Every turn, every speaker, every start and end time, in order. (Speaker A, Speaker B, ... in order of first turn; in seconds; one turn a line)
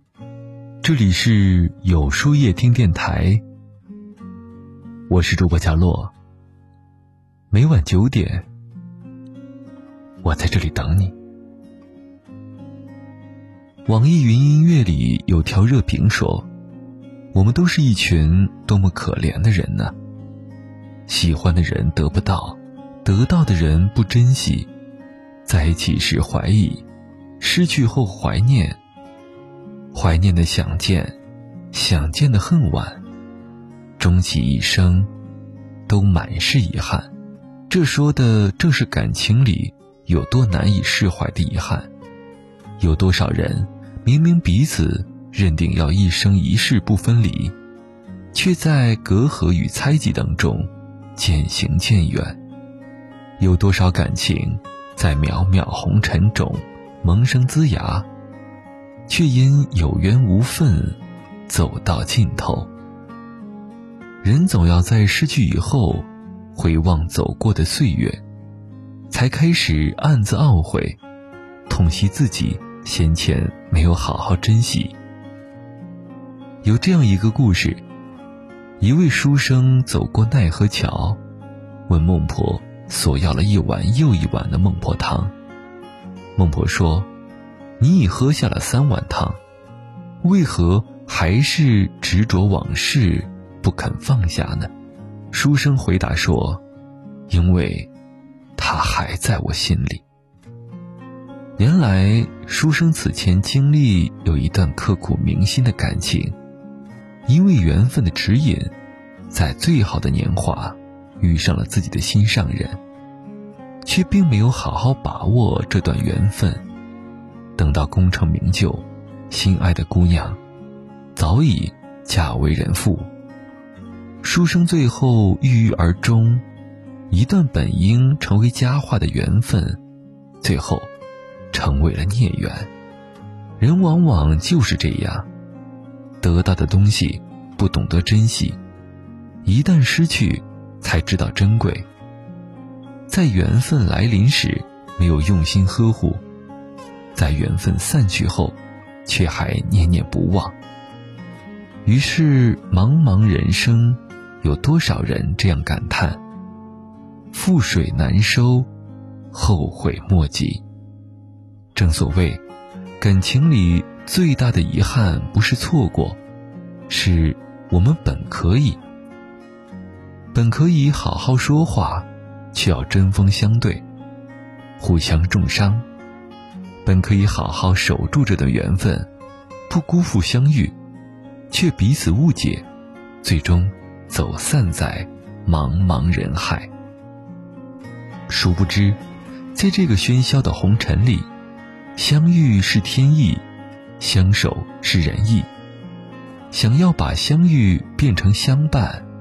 Speaker A: 0.8-3.4
Speaker A: 5.1-6.1
Speaker A: 7.5-8.5
Speaker A: 10.2-11.2
Speaker A: 13.9-16.5
Speaker A: 17.3-19.9
Speaker A: 21.1-24.7
Speaker A: 25.4-26.9
Speaker A: 27.4-28.8
Speaker A: 29.9-31.2
Speaker A: 31.7-33.0
Speaker A: 34.0-35.1
Speaker A: 35.9-37.1
Speaker A: 37.7-41.9
Speaker A: 42.8-47.5
Speaker A: 48.3-52.4
Speaker A: 53.4-58.1
Speaker A: 59.1-62.7
Speaker A: 64.2-68.2
Speaker A: 69.1-71.0
Speaker A: 71.7-75.0
Speaker A: 76.6-77.8
Speaker A: 78.8-81.2
Speaker A: 81.9-85.3
Speaker A: 86.4-87.1
Speaker A: 87.8-89.4
Speaker A: 90.2-94.7
Speaker A: 95.3-96.6
Speaker A: 97.3-97.9
Speaker A: 98.6-100.0
Speaker A: 101.6-106.4
Speaker A: 107.3-108.8
Speaker A: 109.3-112.8
Speaker A: 113.8-116.7
Speaker A: 117.6-120.4
Speaker A: 121.2-123.1
Speaker A: 124.2-126.5
Speaker A: 127.1-129.8
Speaker A: 130.4-130.9
Speaker A: 131.5-132.7
Speaker A: 133.6-135.3
Speaker A: 136.2-138.6
Speaker A: 139.4-141.9
Speaker A: 143.1-146.2
Speaker A: 147.2-150.6
Speaker A: 151.8-156.2
Speaker A: 157.3-158.7
Speaker A: 159.3-160.6
Speaker A: 161.8-162.4
Speaker A: 163.0-166.2
Speaker A: 166.9-168.8
Speaker A: 170.3-173.8
Speaker A: 174.8-175.8
Speaker A: 176.8-179.1
Speaker A: 179.7-180.8
Speaker A: 181.5-182.7
Speaker A: 183.2-186.7
Speaker A: 188.3-189.0
Speaker A: 189.5-191.3
Speaker A: 192.0-193.4
Speaker A: 194.0-195.5
Speaker A: 196.5-199.1